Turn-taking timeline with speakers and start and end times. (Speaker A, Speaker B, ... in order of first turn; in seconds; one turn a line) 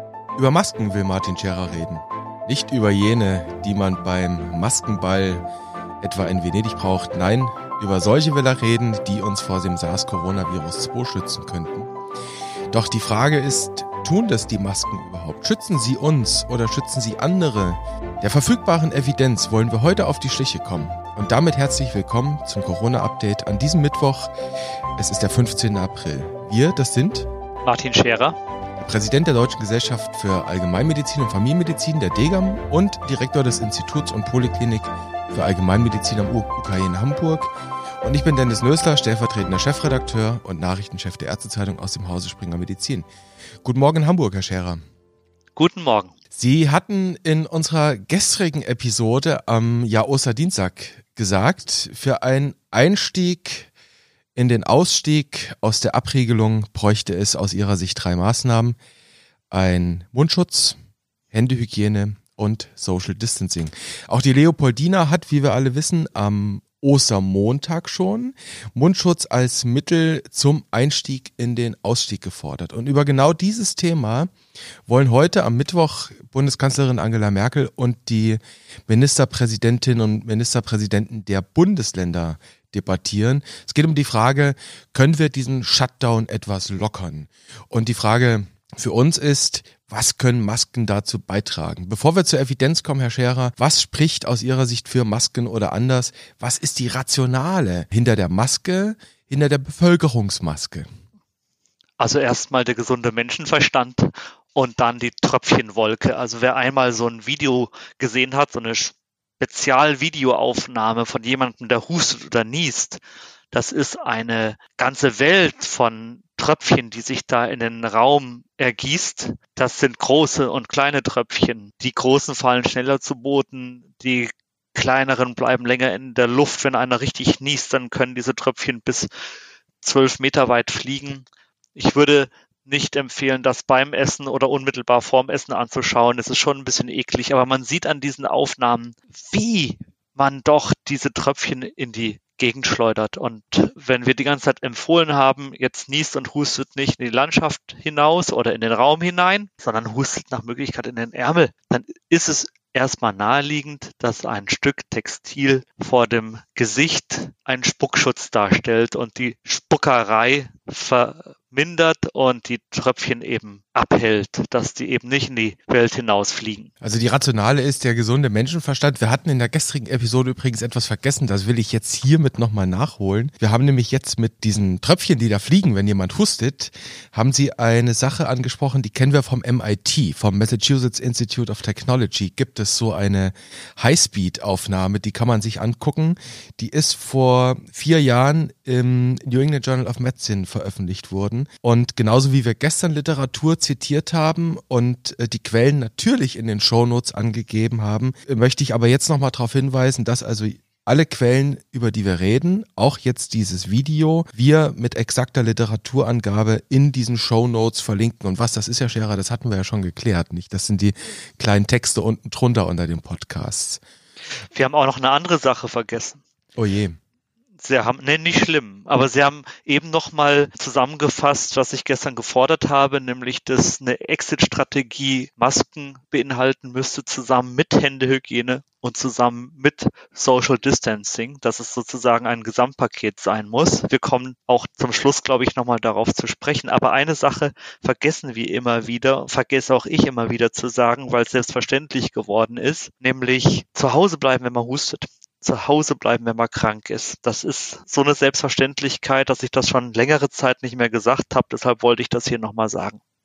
Speaker A: 0.3-5.4
Speaker A: 6.0-11.9
Speaker A: 12.7-24.3
Speaker A: 25.0-27.3
Speaker B: 27.6-28.4
Speaker A: 28.8-43.0
Speaker A: 43.6-44.8
Speaker B: 45.5-46.1
Speaker A: 46.3-53.7
Speaker A: 54.4-58.8
Speaker A: 59.5-60.8
Speaker A: 61.3-74.3
Speaker A: 74.9-100.9
Speaker B: 102.0-113.0
Speaker B: 113.5-129.1
Speaker B: 129.8-166.7
Speaker A: 166.8-213.8
Speaker B: 214.5-216.2
Speaker A: 216.6-217.0
Speaker B: 217.6-253.0